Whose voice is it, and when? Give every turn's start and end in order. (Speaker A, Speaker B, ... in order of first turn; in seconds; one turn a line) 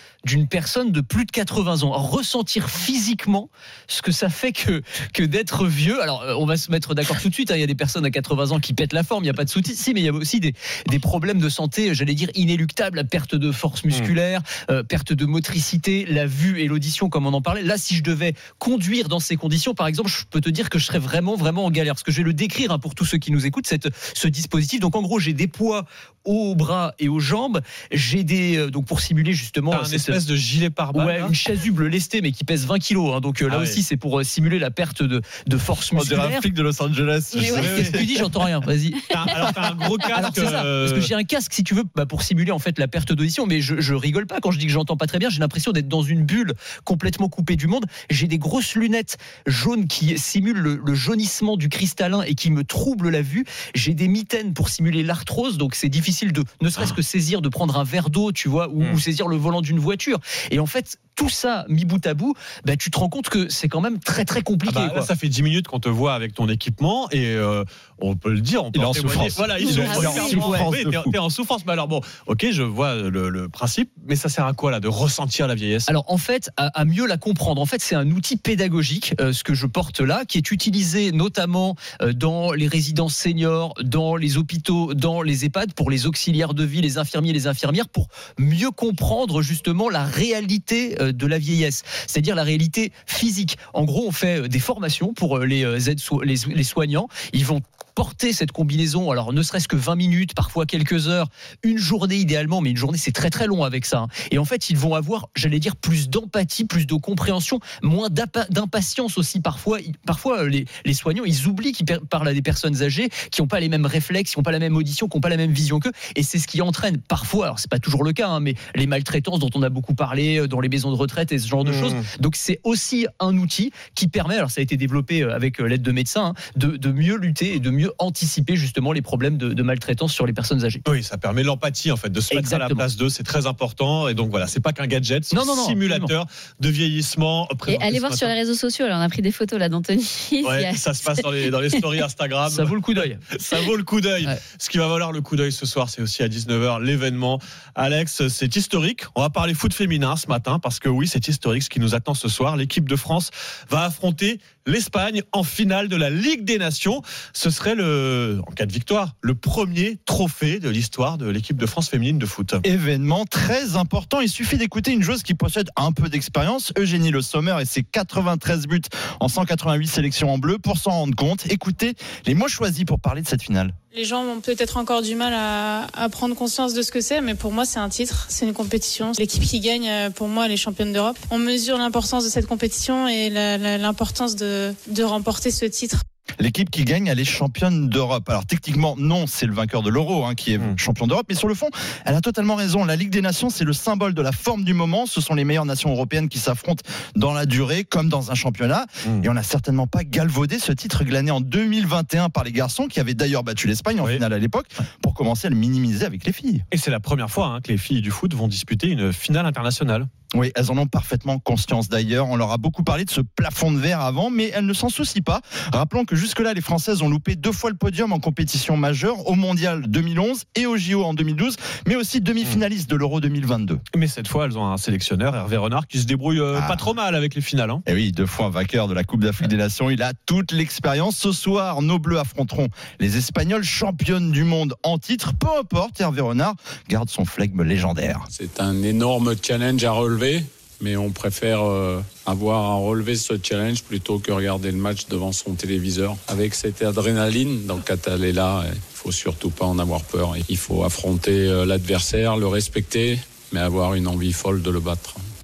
Speaker A: 0.2-30.2
Speaker B: 29.7-31.3
Speaker A: 30.9-36.5
Speaker B: 33.5-33.8
Speaker C: 35.9-38.2
Speaker D: 37.4-37.6
Speaker A: 37.4-39.0
Speaker B: 37.5-38.0
Speaker B: 39.1-41.1
Speaker A: 40.1-65.1
Speaker B: 64.6-75.9
Speaker C: 68.7-71.1
Speaker D: 69.6-70.5
Speaker A: 75.9-130.8
Speaker B: 121.6-122.0
Speaker B: 130.8-138.3
Speaker A: 132.3-132.8
Speaker A: 135.3-136.1
Speaker D: 137.7-141.8
Speaker B: 140.4-162.6
Speaker A: 142.5-143.3
Speaker C: 162.6-173.7
Speaker E: 173.9-186.0
Speaker C: 186.4-206.6
Speaker B: 206.7-210.1
Speaker C: 210.3-223.8
Speaker B: 223.9-227.8
Speaker C: 226.5-226.9
Speaker C: 227.8-238.3
Speaker F: 238.3-255.2